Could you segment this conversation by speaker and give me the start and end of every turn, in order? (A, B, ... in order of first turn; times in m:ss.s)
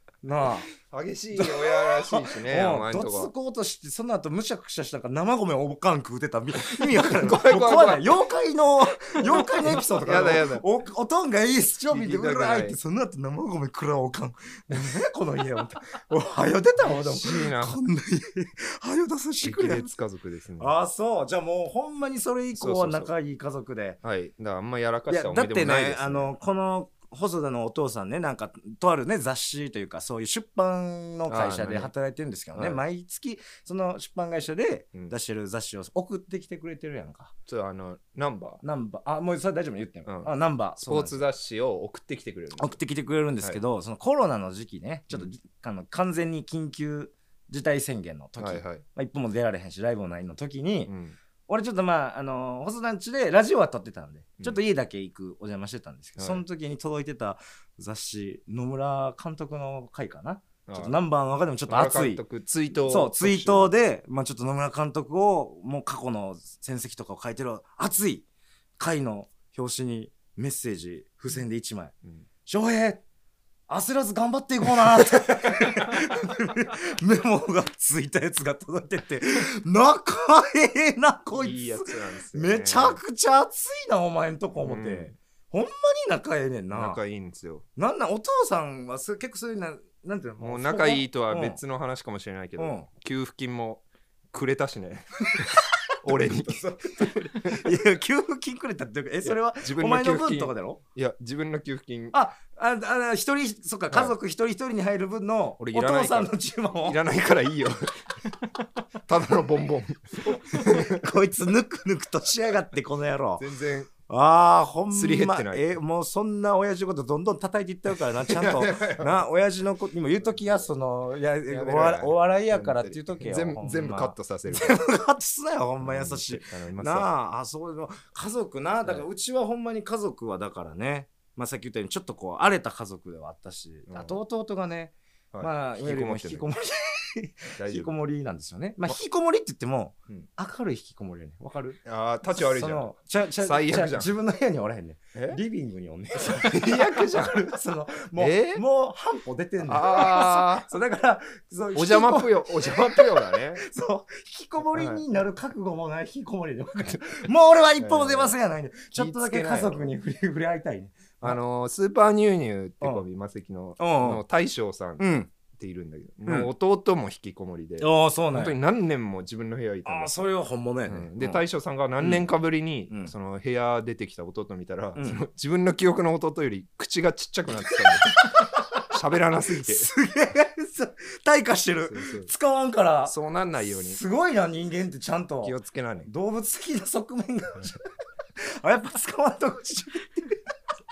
0:00.2-0:00.7 A
0:00.8-0:03.3 B
0:01.3-0:19.9 A
0:06.7-0:08.1 B
0:09.1-0:10.6 B
0:11.9-0:12.8 B
0:16.8-0:17.8 B
0:19.4-0:20.7 B
0:20.6-0:24.0 A
0:22.5-0:23.1 B
0:24.0-0:26.3 B
0:25.1-0:37.3 A
0:31.3-0:31.9 B
0:37.5-0:38.6 B
0:38.6-0:41.2 A
0:40.9-0:42.8 B
0:42.6-0:50.9 A
0:48.4-0:48.8 B
0:50.9-0:51.2 B
0:51.5-1:02.2 A
0:56.2-0:56.4 B
1:00.7-1:01.0 B
1:01.7-1:03.7 B
1:02.7-1:08.2 A
1:08.8-1:11.9 A
1:12.4-1:13.0 A
1:13.7-1:27.0 A
1:21.4-1:23.0 B
1:24.6-1:25.1 B
1:26.7-1:27.6 B
1:27.8-1:31.6 A
1:30.4-1:37.7 B
1:32.6-1:32.9 A
1:35.3-1:35.6 A
1:36.2-1:40.8 A
1:39.2-1:42.2 B
1:42.1-1:47.0 A
1:45.6-1:47.8 B
1:49.1-1:51.1 B
1:50.2-1:53.4 A
1:53.4-1:53.9 B
1:54.0-2:41.4 A
1:54.9-1:55.6 B
1:58.2-1:59.2 B
2:01.5-2:04.8 B
2:05.8-2:07.1 B
2:13.9-2:14.2 B
2:15.3-2:16.5 B
2:17.6-2:17.9 B
2:21.8-2:24.1 B
2:25.1-2:25.4 B
2:26.2-2:27.5 B
2:28.1-2:28.6 B
2:29.6-2:30.7 B
2:31.7-2:33.6 B
2:34.7-2:35.0 B
2:37.8-2:38.4 B
2:38.9-2:39.9 B
2:41.2-2:50.2 B
2:43.8-2:44.2 A
2:45.0-2:45.3 A
2:47.8-2:48.6 A
2:49.8-2:51.4 A
2:50.9-2:59.9 B
2:52.0-2:52.2 A
2:55.0-2:55.2 A
2:58.0-3:03.2 A
3:01.9-3:02.3 B
3:03.0-3:04.0 B
3:03.8-3:10.4 A
3:05.4-3:06.1 B